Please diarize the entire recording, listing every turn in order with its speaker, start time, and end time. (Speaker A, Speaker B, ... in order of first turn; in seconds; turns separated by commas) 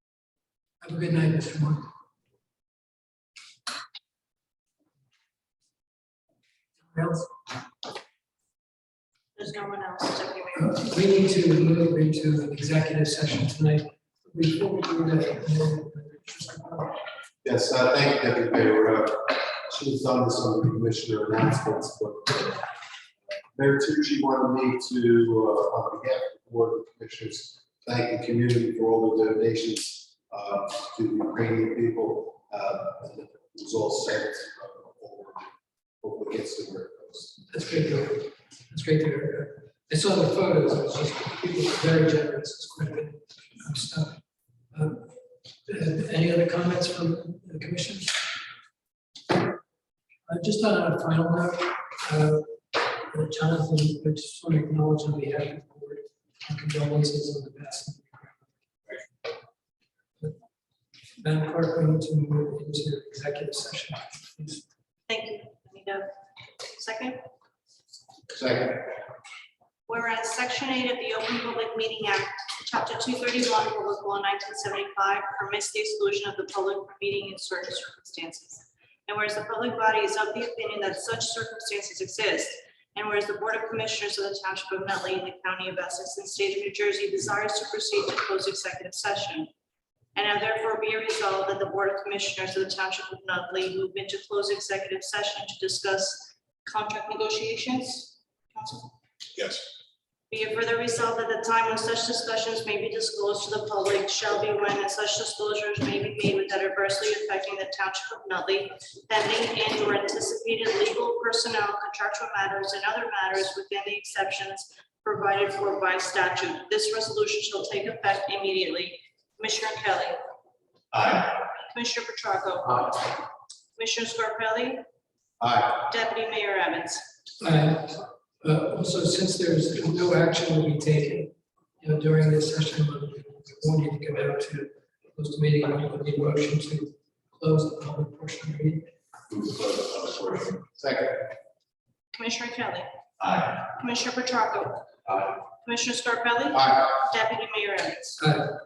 Speaker A: 0.8-1.8, Speaker A: 6.9-7.3, Speaker B: 9.4-10.7, Speaker A: 10.6-17.0, Speaker C: 17.4-22.7, Speaker C: 23.5-37.4, Speaker A: 37.5-44.2, Speaker A: 44.7-45.1, Speaker A: 45.7-48.3, Speaker A: 50.3-58.5, Speaker A: 61.2-64.6, Speaker B: 65.1-66.1, Speaker B: 66.6-67.2, Speaker C: 68.3-69.0, Speaker B: 69.9-89.5, Speaker B: 90.2-98.9, Speaker B: 100.3-120.2, Speaker B: 121.7-123.2, Speaker B: 123.8-124.8, Speaker C: 125.4-125.8, Speaker B: 125.8-127.0, Speaker A: 127.4-138.9, Speaker C: 140.7-141.2, Speaker B: 142.1-142.9, Speaker B: 143.6-144.9, Speaker B: 145.5-148.2, Speaker C: 146.5-146.9, Speaker A: 148.2-148.5